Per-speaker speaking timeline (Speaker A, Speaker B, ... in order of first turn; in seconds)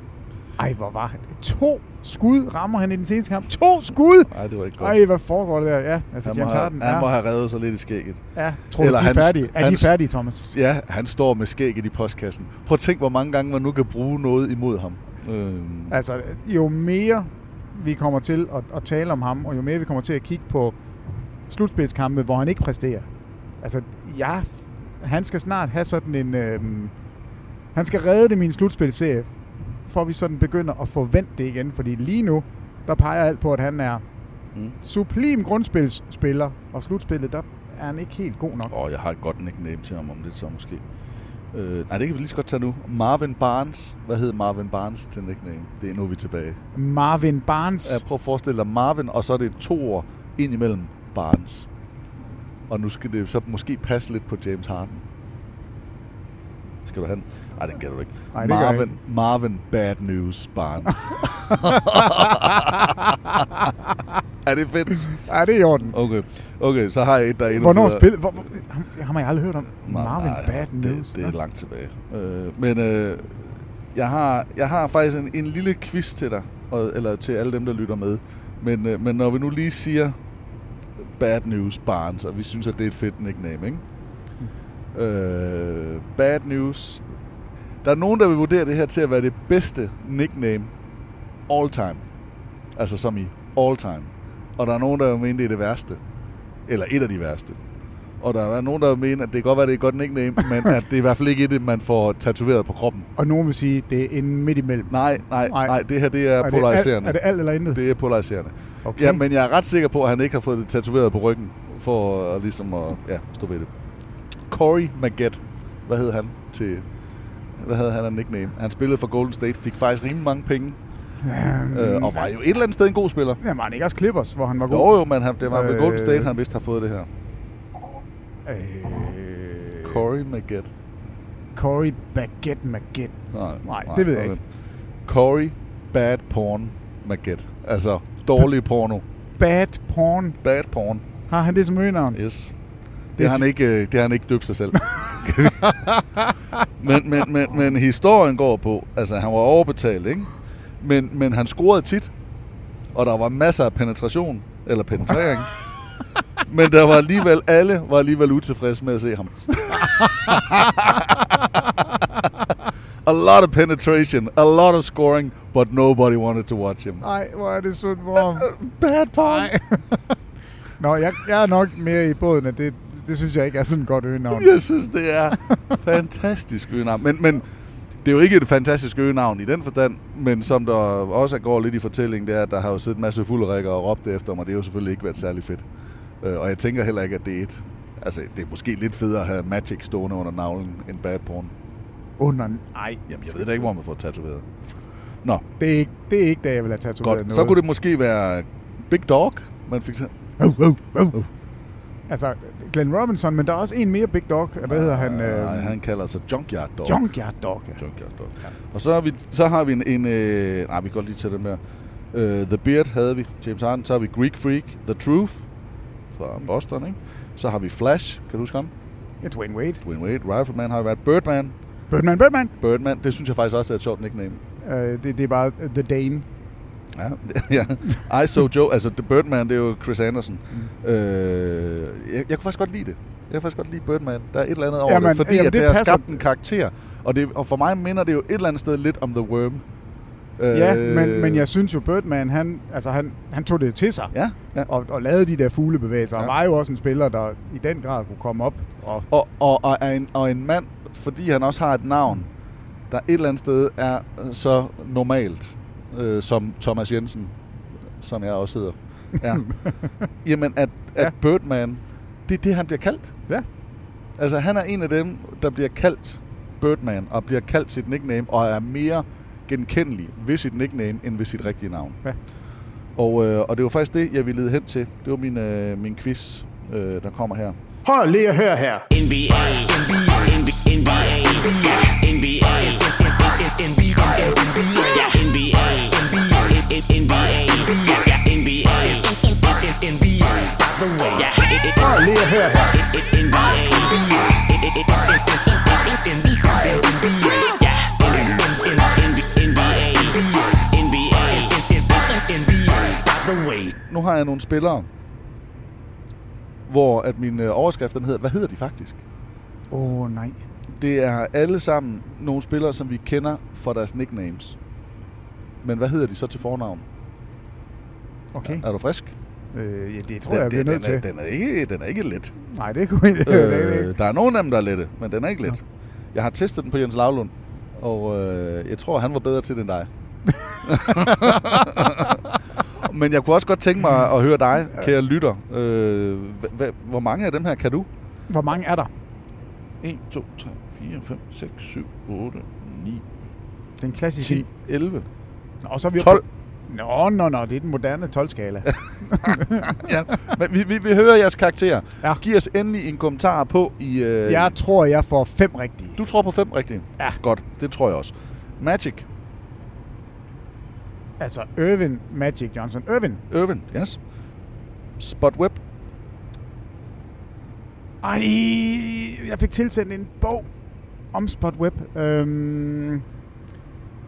Speaker A: 0.6-7.1, 8.3-10.4, 15.9-20.8, 21.5-23.1, 23.6-26.9, 27.7-29.3, 29.9-34.0, 34.8-38.7, 46.8-48.0, 58.3-58.9, 65.1-66.0, 67.5-71.3, 103.2-105.8, 106.4-107.8, 108.8-109.2, 121.2-122.3, 123.4-126.3, 128.5-129.9, 131.6-134.4, 139.4-140.4, 141.3-142.2, 143.2-143.5, 145.6-146.0, 167.0-168.5, 169.2-170.1, 170.8-174.5, 192.2-193.7, 195.6-197.6, 200.4-201.2, 202.1-205.8, 206.8-207.8, 219.2-219.8, 221.9-222.5, 224.6-226.2, 234.8-236.2, 240.5-249.1, 259.6-259.9, 277.9-278.8, 291.8-292.7, 309.7-310.4, 318.3-318.6, 319.5-321.0, 322.5-323.9, 338.3-338.9, 343.8-344.5, 345.6-349.8, 354.2-356.0, 361.2-363.2, 368.0-370.5, 371.1-373.0
Speaker B: 4.3-5.0, 6.2-8.2, 8.8-16.0, 38.7-40.8, 41.5-46.6, 47.8-51.7, 52.7-55.0, 56.8-63.4, 64.5-65.2, 65.9-68.2, 69.8-80.2, 81.0-83.8, 84.9-87.0, 87.8-90.7, 91.5-92.0, 92.7-96.0, 96.7-97.6, 98.2-103.1, 104.9-113.7, 114.5-116.9, 117.6-120.8, 121.7-123.4, 124.7-127.1, 129.8-130.7, 133.3-134.4, 135.1-139.0, 140.4-141.0, 142.1-142.5, 143.2-145.8, 146.8-152.1, 152.9-155.5, 156.5-161.6, 163.1-167.1, 168.1-169.5, 174.3-177.5, 178.0-185.6, 186.2-191.5, 193.1-194.5, 197.0-200.1, 204.6-207.0, 207.8-211.6, 212.1-215.5, 216.1-218.7, 219.8-221.5, 222.6-224.4, 226.9-239.6, 240.4-241.5, 244.1-244.7, 249.1-252.3, 252.9-257.4, 257.9-263.2, 264.2-272.0, 273.0-277.6, 303.9-304.9, 306.7-309.0, 310.7-314.6, 315.6-316.9, 318.4-319.1, 320.3-322.4, 323.2-325.6, 326.1-329.9, 330.6-332.2, 332.8-337.9, 339.8-343.1, 344.2-345.1, 346.0-346.2, 349.2-354.6, 356.0-359.1, 363.3-364.0, 365.0-365.6
Speaker C: 278.9-291.9, 292.7-303.8